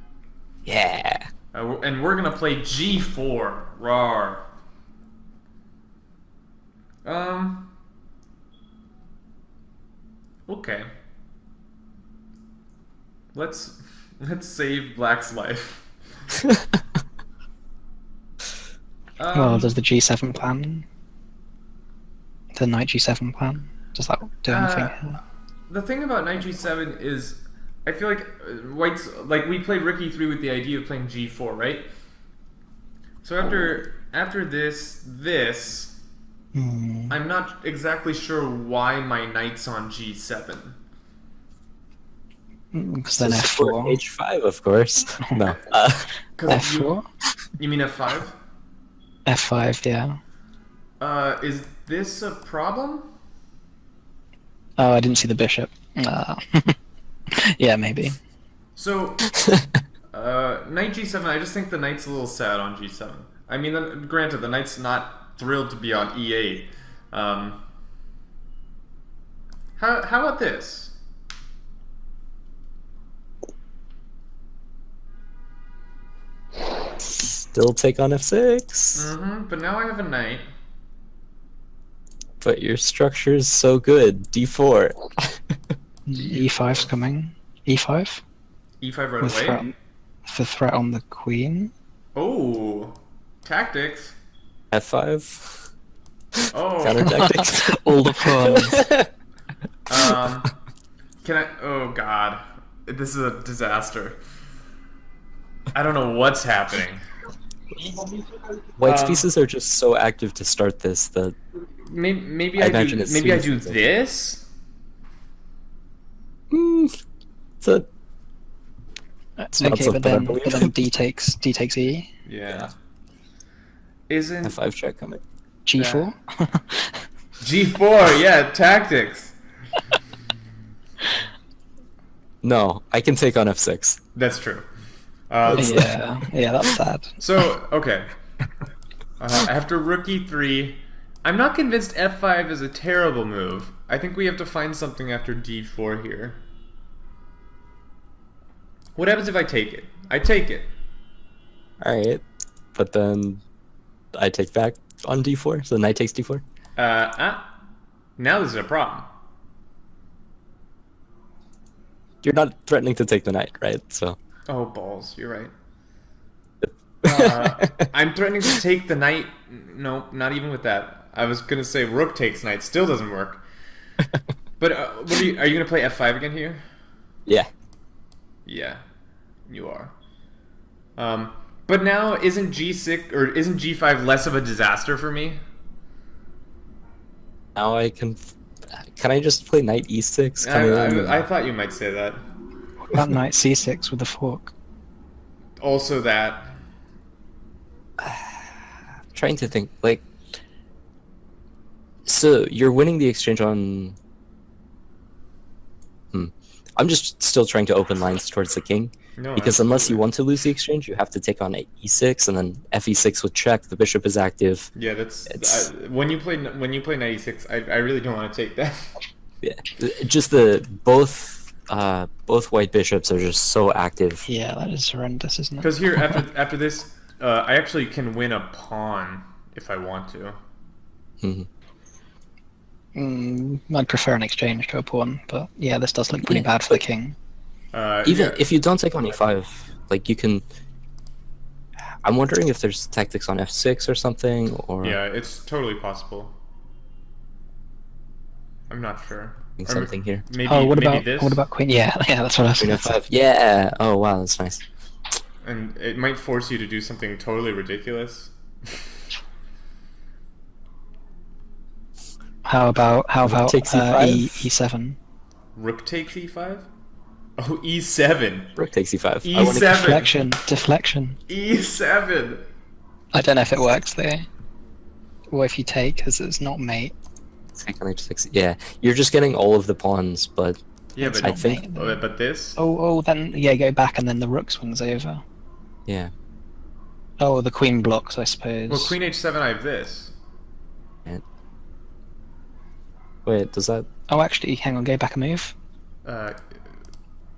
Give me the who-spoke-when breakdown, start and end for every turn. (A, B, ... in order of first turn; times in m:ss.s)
0:00.6-0:01.3 A
0:01.5-0:04.4 B
0:07.0-0:07.7 B
0:10.5-0:10.9 B
0:13.3-0:15.9 B
0:19.2-0:19.8 B
0:19.3-0:20.8 C
0:22.5-0:25.2 C
0:24.5-0:31.9 B
0:33.2-0:35.9 B
0:36.5-0:37.1 C
0:37.1-0:40.8 B
0:42.7-0:44.0 C
0:43.2-0:46.1 A
0:46.4-0:46.9 B
0:46.5-0:47.0 C
0:47.6-0:48.4 B
0:49.2-0:50.2 C
0:51.0-0:53.1 B
0:54.8-0:56.7 C
0:57.6-0:58.2 C
0:58.8-0:59.3 B
1:00.1-1:07.6 B
1:09.8-1:10.9 B
1:17.0-1:19.1 A
1:18.9-1:20.5 B
1:22.4-1:25.1 A
1:26.0-1:28.2 C
1:26.2-1:26.9 B
1:28.8-1:29.6 B
1:29.2-1:29.7 C
1:30.3-1:31.7 C
1:32.2-1:34.2 B
1:34.7-1:35.7 A
1:36.4-1:39.1 A
1:36.5-1:37.3 B
1:37.0-1:38.8 C
1:39.9-1:40.5 B
1:41.2-1:44.2 B
1:45.7-1:47.0 B
1:48.8-1:51.3 A
1:48.8-1:49.3 B
1:51.8-1:54.4 B
1:52.6-1:53.8 A
1:56.5-1:56.9 A
1:59.4-2:02.1 C
1:59.5-2:00.7 A
2:02.2-2:02.7 B
2:04.1-2:04.6 B
2:04.4-2:05.2 A
2:05.6-2:07.0 C
2:05.8-2:06.1 B
2:07.4-2:09.3 B
2:12.4-2:14.0 A
2:14.1-2:14.6 B
2:15.3-2:15.9 B
2:15.4-2:15.9 A
2:15.6-2:17.2 C
2:17.2-2:18.1 B
2:19.2-2:26.4 B
2:29.0-2:30.7 B
2:31.8-2:32.2 A
2:32.7-2:33.4 A
2:34.1-2:36.4 A
2:36.8-2:37.5 B
2:38.2-2:39.1 B
2:42.2-2:44.2 A
2:44.5-2:45.5 B
2:46.6-2:47.9 A
2:47.0-2:53.4 B
2:54.6-2:56.6 B
2:58.4-2:58.8 B
2:59.5-2:59.9 B
3:01.0-3:05.4 B
3:07.6-3:08.2 A
3:08.7-3:11.2 A
3:10.4-3:12.2 B
3:12.9-3:14.5 C
3:15.6-3:16.5 B
3:18.0-3:18.5 A
3:19.1-3:20.0 A
3:22.0-3:24.0 A
3:26.1-3:34.7 A
3:29.2-3:30.0 B
3:34.7-3:38.8 B
3:35.3-3:35.7 A
3:39.4-3:44.2 A
3:44.2-3:46.2 C
3:45.6-3:50.4 B
3:51.2-3:51.5 A
3:52.9-3:57.1 C
3:56.2-3:56.8 A
3:57.7-3:58.5 B
3:58.0-4:00.4 A
4:02.0-4:05.0 A
4:04.8-4:06.3 B
4:08.7-4:11.4 B
4:09.6-4:10.2 A
4:10.4-4:12.9 C
4:12.6-4:14.6 A
4:15.4-4:18.3 B
4:22.4-4:25.0 C
4:23.2-4:24.5 A
4:25.6-4:26.7 B
4:27.4-4:28.6 B
4:28.6-4:30.0 A
4:29.2-4:30.2 B
4:29.7-4:31.2 C
4:31.3-4:32.4 B
4:33.1-4:34.3 C
4:35.3-4:36.9 C
4:37.6-4:40.6 A
4:41.0-4:42.6 B
4:41.0-4:42.0 C
4:41.2-4:41.6 A
4:42.6-4:45.2 C
4:45.9-4:46.1 A
4:47.2-4:49.0 C
4:48.7-4:50.1 B
4:53.2-4:53.8 A
4:54.1-4:55.5 C
4:56.0-4:56.4 B